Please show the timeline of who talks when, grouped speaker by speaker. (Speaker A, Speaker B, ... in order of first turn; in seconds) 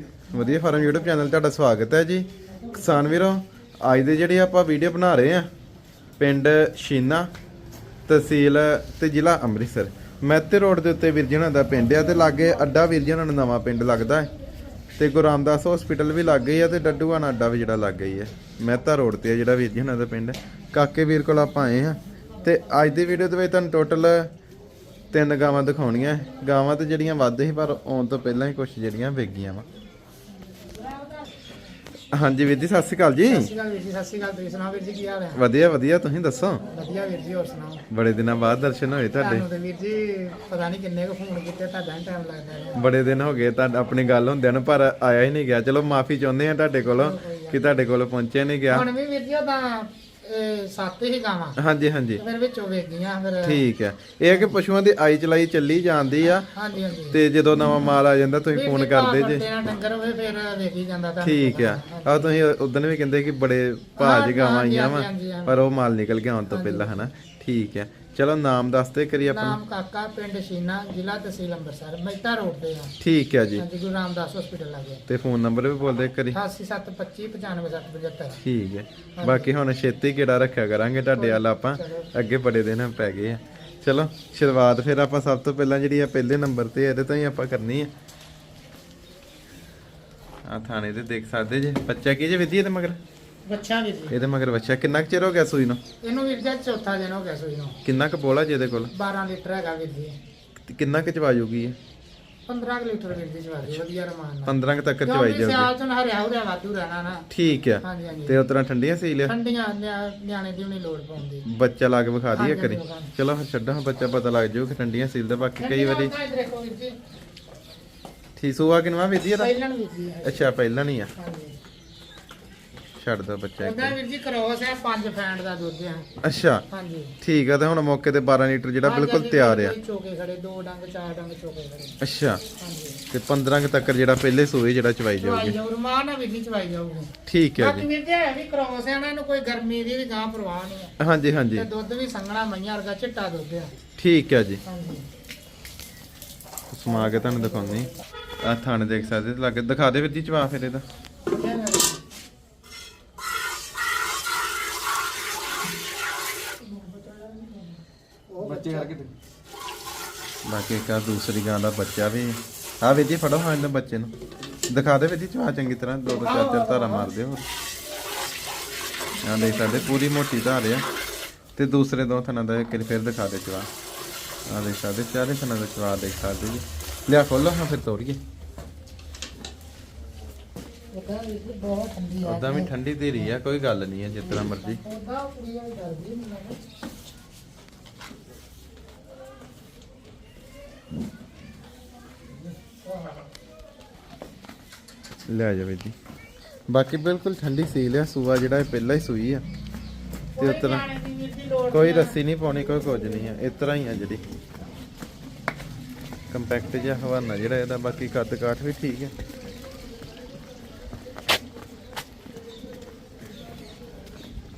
Speaker A: 0.3-5.5, 6.2-7.3, 8.1-14.3, 15.0-24.3, 25.1-29.6, 32.1-33.5, 35.4-36.6, 37.9-39.5, 42.8-48.9, 51.6-52.2, 53.4-56.5, 57.1-59.5, 61.2-69.6, 73.0-73.7, 75.1-76.4, 78.4-87.9, 90.5-93.0, 94.1-95.8, 97.8-98.9, 100.7-101.8, 104.5-105.7, 107.3-109.3, 111.5-116.1, 118.4-119.5, 120.2-121.1, 123.0-124.0, 126.2-126.6, 127.2-129.8, 132.0-132.4, 133.1-135.6, 137.3-137.9, 141.0-141.7, 144.0-144.6, 146.7-147.9, 148.4-150.8, 160.4-164.1, 164.7-167.5, 169.2-170.8, 171.6-173.7, 174.5-178.2, 182.3-184.8, 195.3-195.9, 196.7-199.4, 200.4-200.8, 201.7-204.2, 206.3-209.1
Speaker B: 33.3-35.4, 36.7-37.9, 39.1-42.8, 46.8-47.8, 48.7-51.6, 52.2-53.7, 54.3-54.5, 56.4-57.2, 58.5-62.3, 64.0-65.6, 66.5-67.1, 69.3-72.9, 73.5-75.0, 76.3-78.4, 79.2-79.5, 81.2-82.1, 93.5-94.1, 96.0-97.8, 98.9-100.2, 102.5-107.3, 107.8-108.4, 109.3-111.5, 112.3-113.1, 115.6-117.0, 119.4-120.5, 121.2-121.6, 123.6-126.1, 126.7-127.2, 128.8-132.0, 132.6-133.0, 135.2-140.9, 141.6-143.7, 144.7-145.1, 146.9-147.9, 151.3-152.0, 156.6-159.1, 166.1-167.1, 169.2-170.0, 180.9-183.3, 184.2-186.6, 192.3-193.3, 200.4-202.2